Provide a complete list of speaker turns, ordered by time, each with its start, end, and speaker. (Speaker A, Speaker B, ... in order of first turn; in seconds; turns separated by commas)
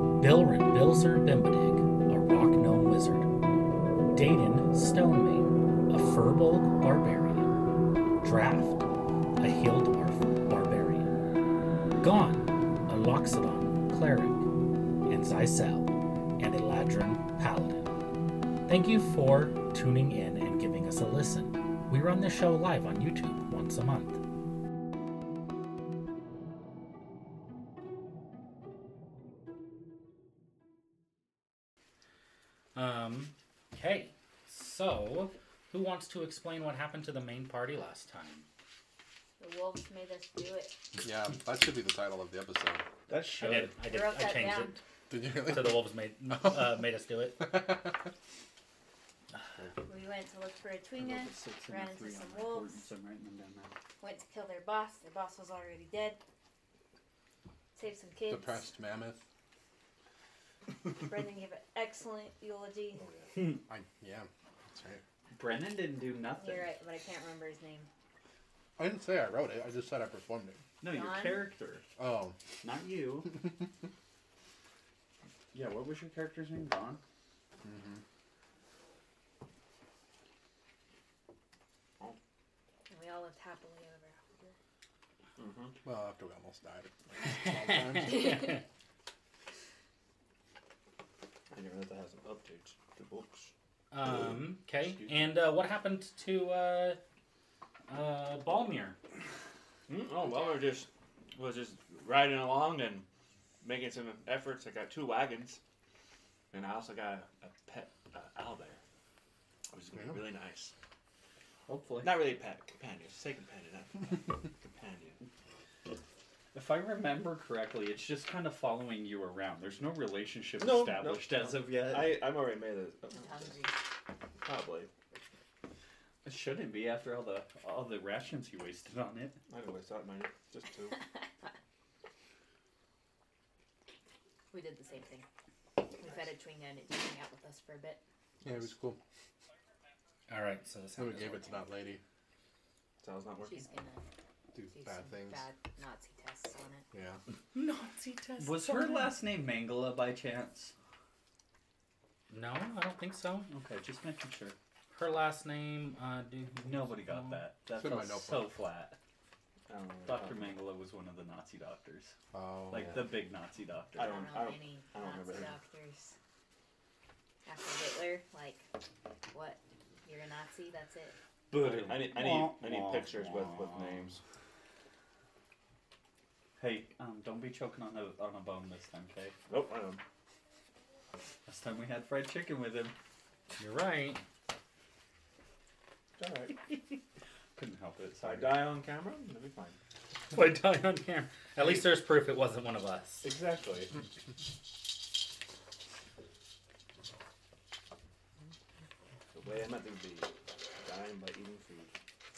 Speaker A: 0.2-3.3, Speaker A: 4.1-7.6, Speaker A: 8.2-8.8, Speaker A: 9.4-11.1, Speaker A: 12.0-14.5, Speaker A: 15.1-17.9, Speaker A: 18.7-24.2, Speaker A: 32.7-38.5, Speaker B: 39.4-40.8, Speaker C: 41.0-42.8, Speaker D: 43.1-43.7, Speaker A: 43.4-44.8, Speaker B: 43.8-44.8, Speaker C: 45.1-45.9, Speaker A: 45.3-47.5, Speaker C: 47.4-47.9, Speaker B: 49.8-52.9, Speaker D: 51.0-53.7, Speaker B: 54.0-56.2, Speaker B: 57.7-58.7, Speaker C: 58.3-59.2, Speaker B: 60.9-63.1, Speaker E: 63.0-63.3, Speaker C: 63.5-65.0, Speaker D: 65.3-66.7, Speaker B: 66.3-67.9, Speaker C: 68.8-70.6, Speaker D: 70.8-71.8, Speaker B: 70.8-71.5, Speaker C: 72.0-72.3, Speaker D: 72.6-73.3, Speaker D: 75.5-77.0, Speaker C: 77.6-78.0, Speaker B: 82.9-84.5, Speaker E: 85.4-85.7, Speaker C: 85.8-88.3, Speaker A: 87.3-88.6, Speaker E: 91.5-93.5, Speaker A: 93.9-97.0, Speaker A: 97.9-99.0, Speaker E: 99.9-103.0, Speaker E: 103.6-105.6, Speaker E: 106.5-108.8, Speaker E: 109.7-110.7, Speaker D: 111.7-112.2, Speaker E: 112.0-115.2, Speaker D: 116.5-122.2, Speaker E: 120.6-123.6, Speaker B: 123.1-123.8, Speaker E: 124.4-124.9, Speaker D: 126.2-129.4, Speaker E: 129.5-131.0, Speaker B: 134.5-135.2, Speaker B: 135.9-138.0, Speaker C: 138.4-139.0, Speaker A: 140.3-141.7, Speaker C: 140.9-142.0, Speaker E: 143.0-143.7, Speaker B: 143.4-144.0, Speaker C: 144.5-145.4, Speaker B: 144.7-146.8, Speaker C: 146.9-147.2, Speaker A: 147.5-149.1, Speaker D: 148.4-150.7, Speaker A: 152.3-153.5, Speaker D: 153.5-154.6, Speaker A: 154.9-157.4, Speaker D: 156.6-159.0, Speaker C: 157.7-158.5, Speaker E: 159.7-160.6, Speaker D: 160.0-162.1, Speaker C: 162.3-163.1, Speaker D: 162.7-164.1, Speaker E: 163.9-165.6, Speaker B: 164.0-166.1, Speaker B: 167.4-168.7, Speaker B: 169.3-171.2, Speaker D: 171.5-174.2, Speaker E: 171.5-174.2, Speaker D: 176.6-179.3, Speaker E: 179.5-180.0, Speaker D: 181.4-182.9, Speaker A: 183.6-184.2, Speaker E: 186.2-186.5, Speaker D: 187.6-188.8, Speaker E: 188.2-189.8, Speaker A: 190.3-193.3, Speaker D: 193.2-193.9, Speaker E: 199.3-201.9